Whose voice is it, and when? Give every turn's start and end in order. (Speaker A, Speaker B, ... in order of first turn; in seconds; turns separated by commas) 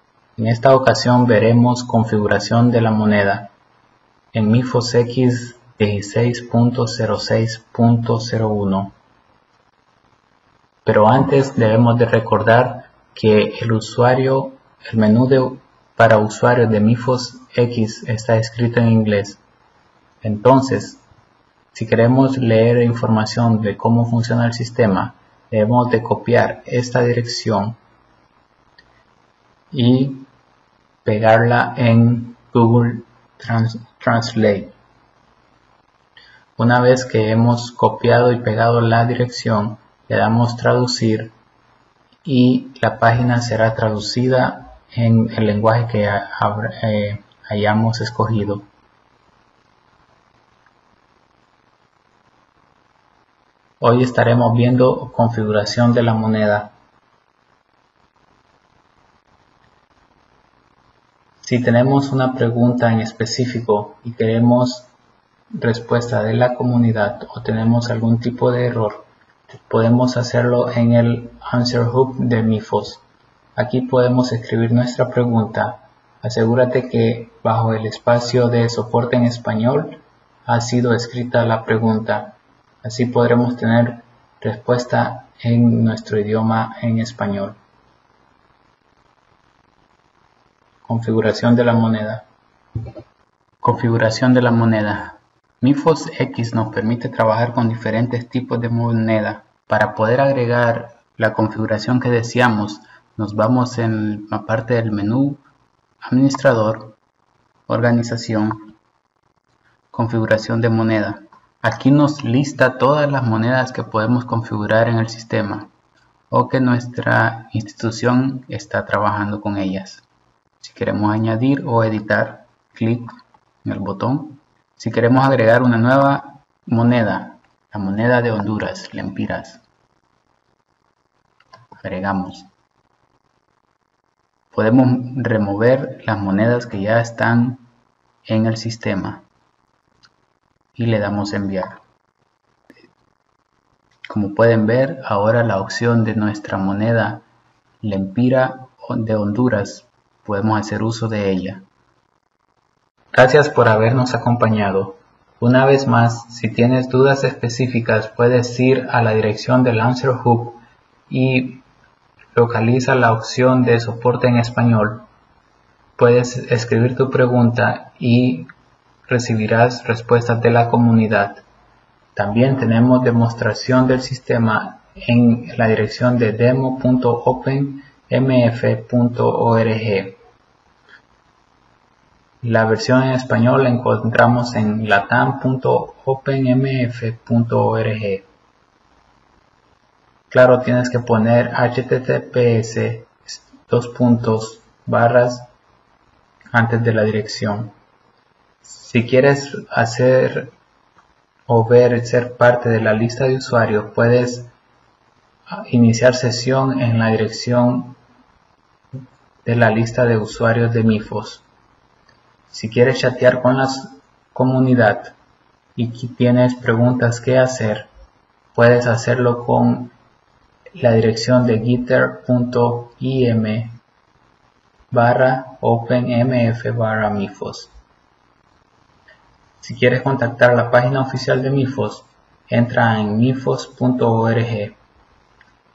Speaker A: 0.4-3.5, Speaker A: 4.3-8.9, Speaker A: 10.8-19.4, Speaker A: 20.2-21.0, Speaker A: 21.7-27.8, Speaker A: 29.7-30.3, Speaker A: 31.0-34.7, Speaker A: 36.6-41.3, Speaker A: 42.2-48.7, Speaker A: 53.8-56.7, Speaker A: 61.4-64.9, Speaker A: 65.5-73.0, Speaker A: 73.5-87.6, Speaker A: 90.8-92.2, Speaker A: 93.6-105.4, Speaker A: 106.0-107.0, Speaker A: 107.7-108.7, Speaker A: 109.9-115.7, Speaker A: 116.3-120.0, Speaker A: 120.6-123.1, Speaker A: 123.6-129.6, Speaker A: 131.8-132.5, Speaker A: 134.5-137.6, Speaker A: 138.2-139.2, Speaker A: 140.7-141.8, Speaker A: 144.1-147.3, Speaker A: 147.8-151.6, Speaker A: 153.1-161.7, Speaker A: 162.3-165.1, Speaker A: 166.0-168.5, Speaker A: 169.1-171.4, Speaker A: 172.1-180.2, Speaker A: 182.4-188.2, Speaker A: 190.3-195.5, Speaker A: 196.5-197.7, Speaker A: 198.6-200.5, Speaker A: 201.5-204.5, Speaker A: 205.5-208.0, Speaker A: 209.4-211.4, Speaker A: 212.5-215.2, Speaker A: 215.8-217.9, Speaker A: 218.5-219.9, Speaker A: 220.8-223.8, Speaker A: 224.9-227.7, Speaker A: 229.6-234.8